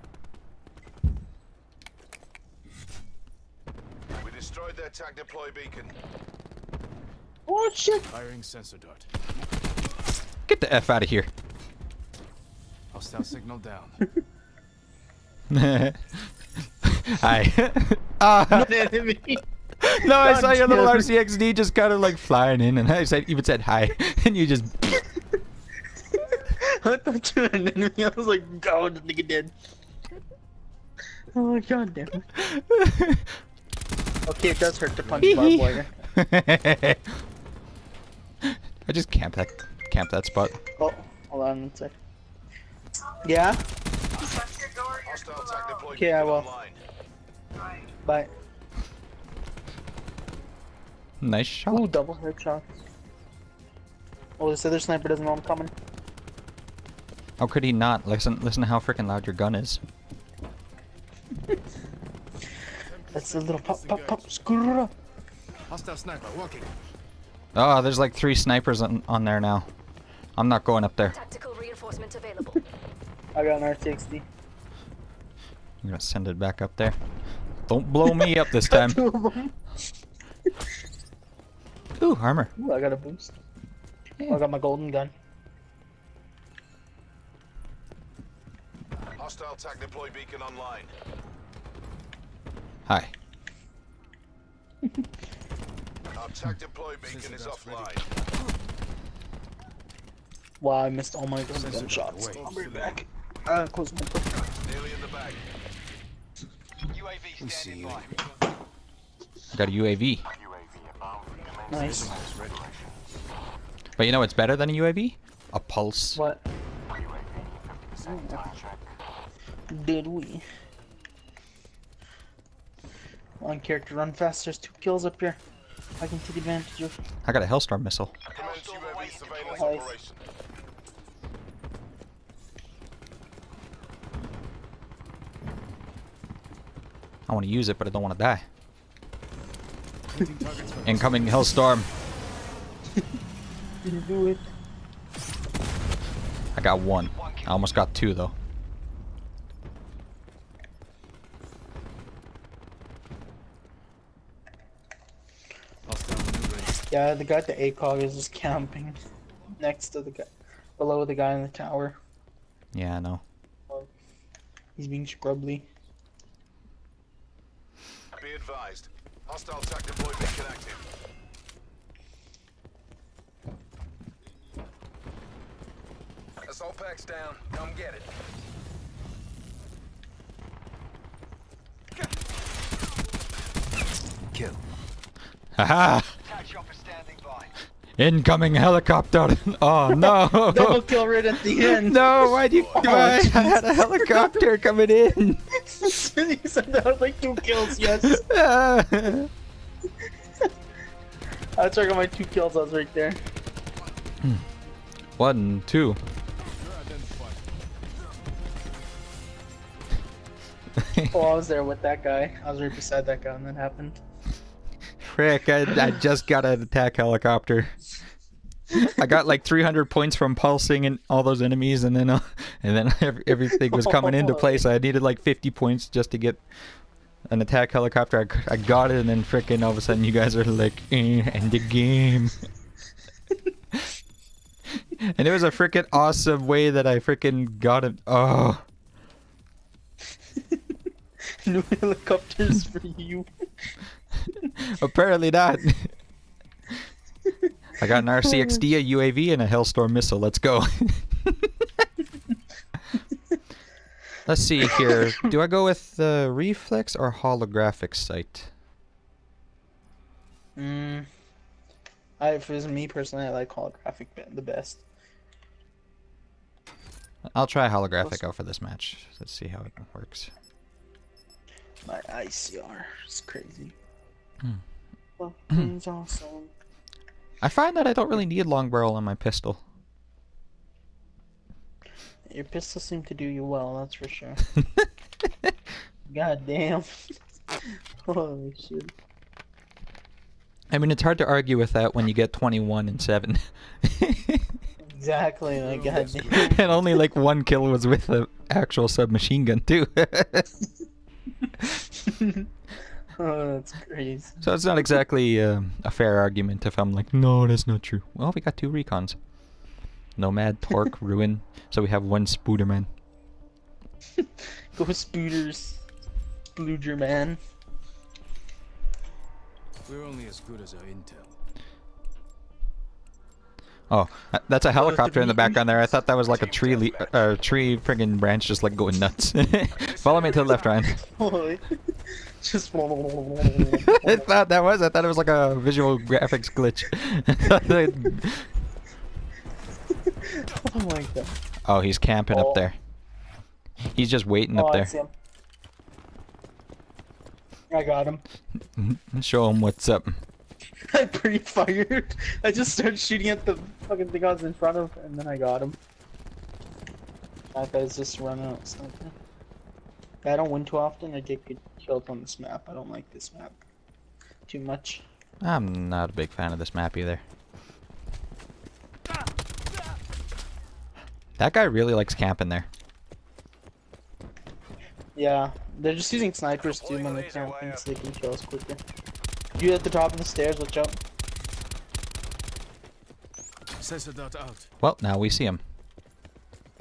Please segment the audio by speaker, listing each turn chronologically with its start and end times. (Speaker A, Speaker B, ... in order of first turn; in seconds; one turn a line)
Speaker A: 4.2-5.9
Speaker B: 7.5-8.1
Speaker C: 8.1-9.1
Speaker D: 10.5-11.3
Speaker C: 12.9-14.0
Speaker D: 15.5-16.3
Speaker D: 16.8-18.9
Speaker B: 18.5-19.4
Speaker D: 19.8-24.9
Speaker B: 20.0-21.1
Speaker B: 26.1-29.5
Speaker B: 31.3-32.3
Speaker D: 32.4-33.3
Speaker B: 34.2-36.0
Speaker C: 35.0-35.5
Speaker D: 35.2-37.1
Speaker D: 38.4-40.6
Speaker B: 40.8-41.9
Speaker B: 43.2-43.6
Speaker A: 44.9-46.8
Speaker B: 45.9-46.5
Speaker B: 48.0-48.3
Speaker D: 51.2-51.9
Speaker B: 51.7-52.7
Speaker B: 54.4-55.7
Speaker D: 57.4-59.8
Speaker C: 62.8-64.2
Speaker B: 63.1-64.9
Speaker C: 65.7-66.7
Speaker D: 67.5-69.7
Speaker D: 70.3-71.2
Speaker E: 71.1-72.6
Speaker B: 73.3-74.2
Speaker D: 75.8-77.0
Speaker D: 77.7-79.0
Speaker B: 78.1-79.5
Speaker D: 82.0-82.5
Speaker B: 82.6-83.3
Speaker B: 84.3-85.1
Speaker A: 89.2-90.9
Speaker D: 92.9-93.1
Speaker A: 96.1-98.1
Speaker C: 97.0-98.1
Speaker B: 100.6-104.4
Speaker C: 101.5-103.0
Speaker A: 104.6-105.4
Speaker E: 106.9-108.0
Speaker C: 107.4-108.2
Speaker D: 109.5-110.2
Speaker B: 111.7-112.2
Speaker C: 111.7-112.8
Speaker D: 114.0-116.2
Speaker B: 116.1-116.4
Speaker B: 118.0-118.5
Speaker B: 119.7-120.4
Speaker B: 123.4-125.4
Speaker B: 126.0-127.0
Speaker D: 127.2-128.1
Speaker A: 128.3-130.2
Speaker E: 128.3-129.8
Speaker B: 129.4-129.9
Speaker D: 137.3-138.4
Speaker C: 140.1-141.7
Speaker D: 140.8-141.9
Speaker B: 143.8-144.4
Speaker D: 146.5-148.3
Speaker C: 155.8-156.8
Speaker B: 156.9-159.0
Speaker B: 159.6-162.0
Speaker D: 162.7-163.2
Speaker B: 164.8-165.7
Speaker A: 168.2-170.8
Speaker A: 176.4-178.1
Speaker C: 184.3-184.6
Speaker D: 185.5-186.1
Speaker E: 186.3-187.5
Speaker D: 188.0-195.4
Speaker B: 189.9-194.4
Speaker A: 192.3-192.9
Speaker B: 195.7-198.2
Speaker D: 197.8-199.3
Speaker B: 201.6-203.2
Speaker D: 205.2-206.0
Speaker C: 206.5-207.4
Speaker D: 210.8-211.2
Speaker B: 211.1-214.0
Speaker D: 215.0-217.7
Speaker D: 218.7-226.4
Speaker B: 223.5-224.6
Speaker D: 227.3-232.4
Speaker D: 235.0-238.6
Speaker B: 241.4-243.3
Speaker D: 244.6-245.9
Speaker D: 247.8-251.7
Speaker D: 254.2-258.5
Speaker B: 260.6-261.1
Speaker B: 262.2-264.8
Speaker D: 267.3-270.3
Speaker B: 271.9-273.7
Speaker B: 275.2-276.5
Speaker D: 277.4-279.6
Speaker B: 282.3-284.4
Speaker B: 286.1-287.1
Speaker B: 288.0-288.9
Speaker D: 290.7-294.5
Speaker B: 294.8-296.6
Speaker C: 295.5-296.9
Speaker D: 296.3-300.5
Speaker B: 301.9-302.5
Speaker B: 303.2-304.4
Speaker D: 304.4-309.2
Speaker D: 310.2-312.9
Speaker B: 314.2-315.8
Speaker B: 316.5-317.4
Speaker C: 319.9-321.3
Speaker D: 323.9-331.0
Speaker B: 324.7-325.9
Speaker A: 326.2-327.4
Speaker A: 329.8-330.8
Speaker B: 330.9-331.7
Speaker B: 332.4-334.3
Speaker D: 333.4-338.5
Speaker B: 337.6-338.2
Speaker B: 340.1-341.4
Speaker D: 341.6-342.8
Speaker B: 342.3-342.6
Speaker D: 343.9-344.9
Speaker B: 344.5-345.1
Speaker B: 347.7-348.2
Speaker D: 348.7-350.2
Speaker B: 350.9-355.8
Speaker B: 357.5-359.1
Speaker B: 360.2-363.6
Speaker B: 364.5-365.0
Speaker D: 365.4-367.2
Speaker D: 371.4-372.7
Speaker B: 375.1-378.8
Speaker A: 376.6-377.9
Speaker B: 379.6-381.0
Speaker C: 383.8-384.7
Speaker D: 384.8-385.6